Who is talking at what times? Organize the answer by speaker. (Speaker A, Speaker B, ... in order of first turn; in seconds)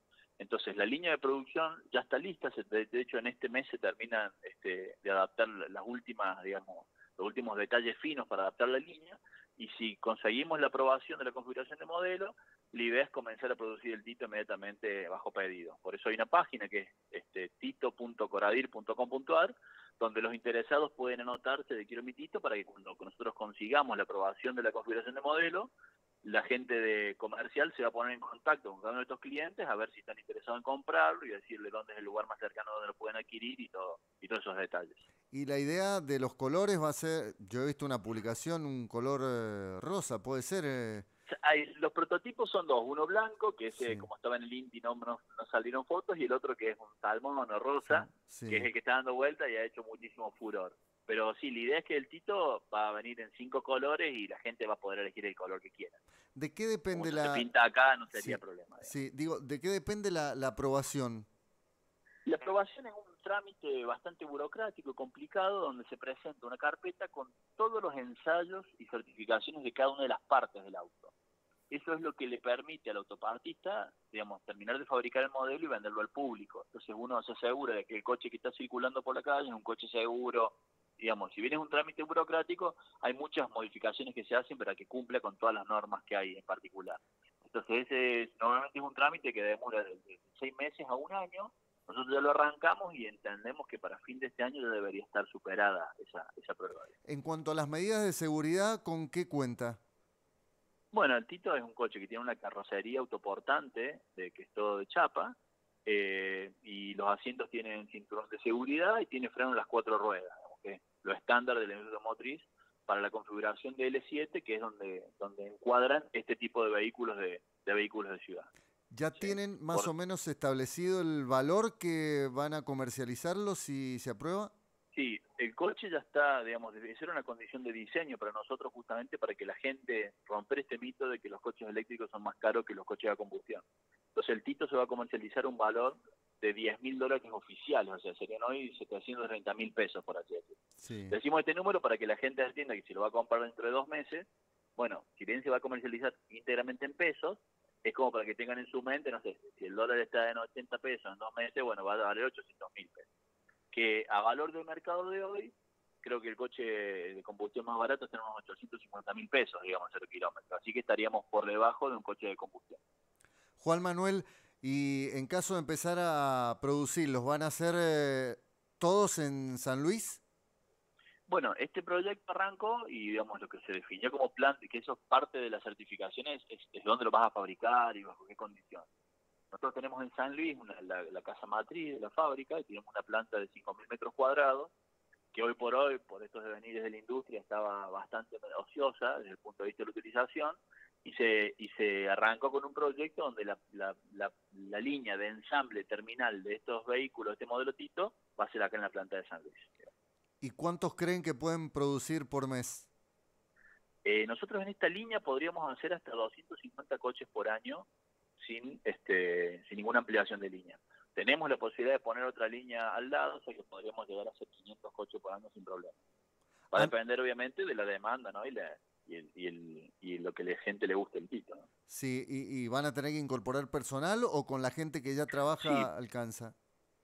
Speaker A: 0.4-25.7, 26.2-35.0, 41.3-56.0, 56.9-58.9, 62.2-71.1, 71.7-96.9, 100.9-105.3, 105.8-118.5, 119.1-119.9, 124.9-133.6, 134.1-140.6, 141.1-144.2, 144.8-153.1, 153.7-162.8, 171.3-178.9, 179.5-184.7, 185.3-199.8, 204.0-207.8, 208.4-216.0, 216.7-221.7, 225.6-225.9
Speaker B: 35.3-41.0, 43.7-44.0, 47.9-48.7, 56.3-57.4, 58.1-61.3, 97.1-99.8, 118.9-124.5, 140.8-141.1, 163.6-170.2, 200.4-202.9, 221.9-226.5